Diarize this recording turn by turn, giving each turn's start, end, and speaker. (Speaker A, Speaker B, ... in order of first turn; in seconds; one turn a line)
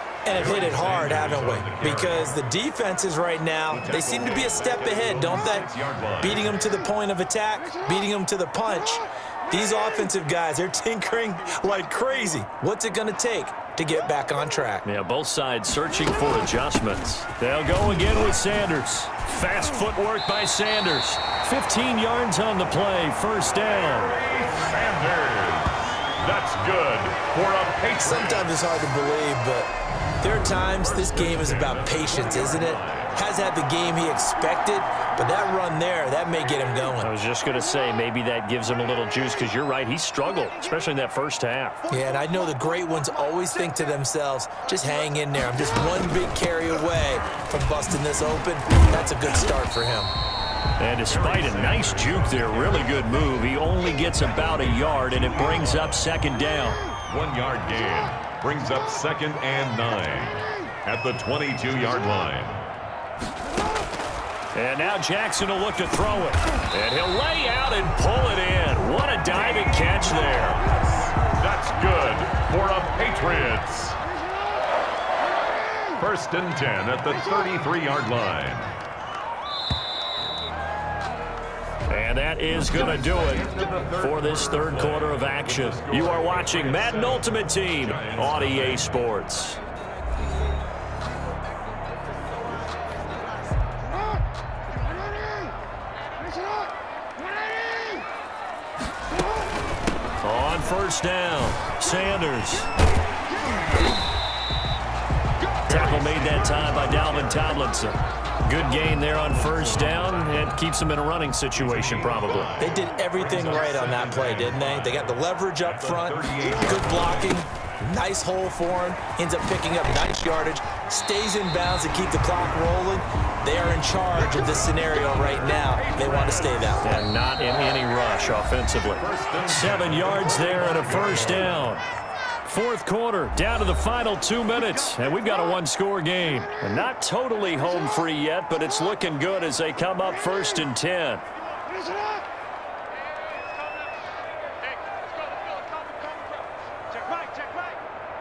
Speaker A: 0.2-5.7
Speaker B: 0.3-2.3
Speaker B: 3.7-6.4
Speaker A: 6.2-14.8
Speaker C: 14.8-24.2
Speaker B: 24.0-28.5
Speaker A: 28.0-29.7
Speaker A: 30.2-37.1
Speaker B: 30.8-33.2
Speaker C: 37.0-41.8
Speaker A: 41.9-50.1
Speaker C: 50.8-56.8
Speaker B: 51.1-53.2
Speaker B: 55.5-56.0
Speaker B: 57.1-62.6
Speaker C: 64.5-70.6
Speaker B: 71.1-74.0
Speaker B: 76.0-78.7
Speaker C: 81.9-89.6
Speaker B: 82.7-88.8
Speaker C: 100.2-102.7
Speaker C: 105.7-112.5
Speaker B: 105.7-106.0
Speaker B: 109.0-110.4
Speaker B: 111.5-117.4
Speaker A: 112.6-127.0
Speaker B: 124.2-126.8
Speaker C: 126.8-131.8
Speaker B: 129.0-131.6
Speaker C: 132.4-141.2